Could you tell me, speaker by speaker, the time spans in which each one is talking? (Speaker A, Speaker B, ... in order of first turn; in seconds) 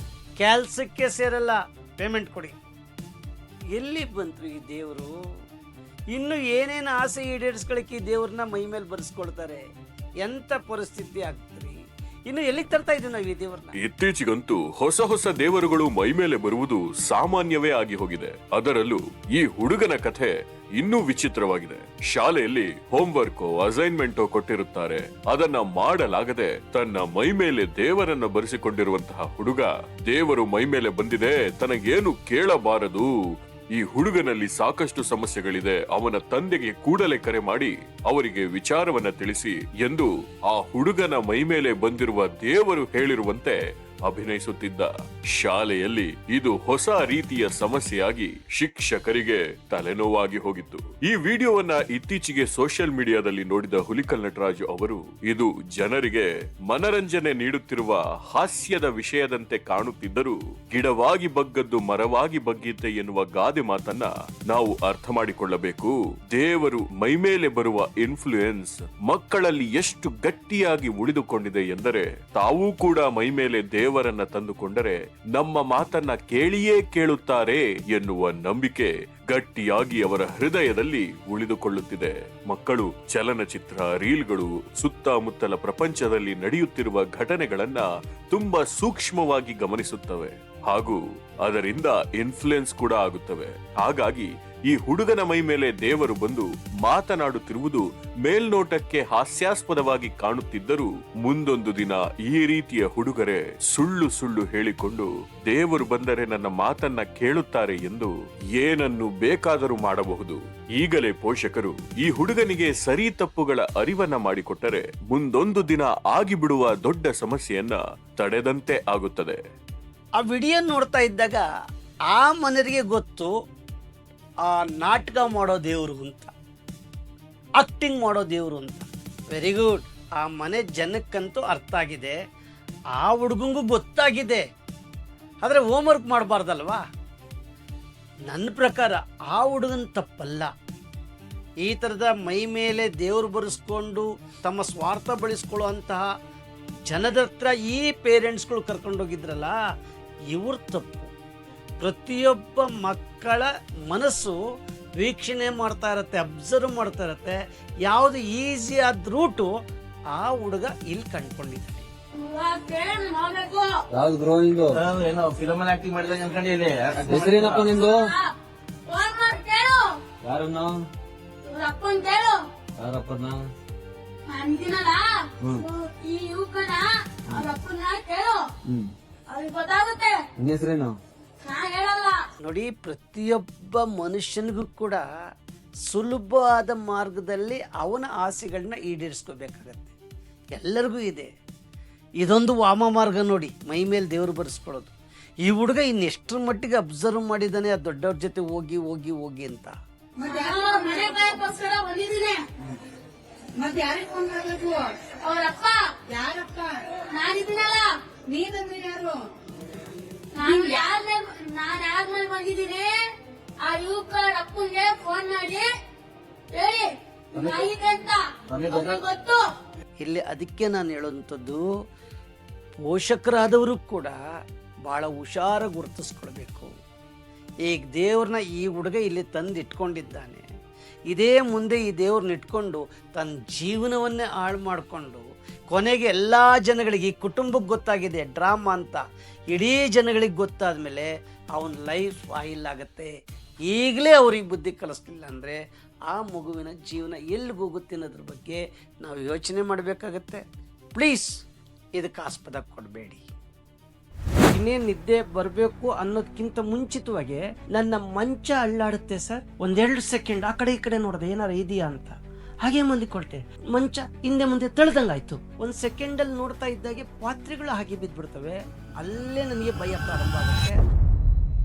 Speaker A: 0.4-2.6, 3.7-5.1, 6.1-9.6, 10.2-11.8, 12.3-13.8, 120.2-121.4, 122.1-123.3, 124.5-126.3, 127.6-132.2, 133.0-134.4, 135.4-136.8, 138.3-140.5, 141.6-146.0, 146.9-149.5, 150.3-151.1, 151.8-154.4, 155.0-157.3, 157.9-159.5, 160.2-161.9, 182.4-185.0, 185.9-189.9, 190.6-191.3, 192.2-194.9, 195.4-199.8, 220.0-221.6, 222.8-224.2, 224.9-226.7, 227.7-230.4, 231.1-243.1, 243.7-245.6, 246.1-250.4, 250.9-251.3, 252.0-253.3, 254.5-270.8
Speaker B: 13.8-33.1, 33.8-43.6, 44.1-119.4
Speaker C: 162.2-163.7, 167.7-168.3, 168.9-169.9, 171.4-172.4, 174.3-178.4, 179.3-180.2, 181.4-182.2, 200.3-202.4, 205.2-205.8, 207.1-207.9, 210.3-212.9, 213.6-215.7, 216.5-219.4
Speaker D: 163.9-164.8, 167.1-168.1, 170.2-170.8, 172.8-173.4, 178.7-178.9, 180.4-181.0
Speaker E: 164.8-167.7, 217.3-217.7, 218.5-219.0
Speaker F: 200.2-200.8, 203.6-205.0, 206.1-206.8, 208.3-209.3, 210.5-210.8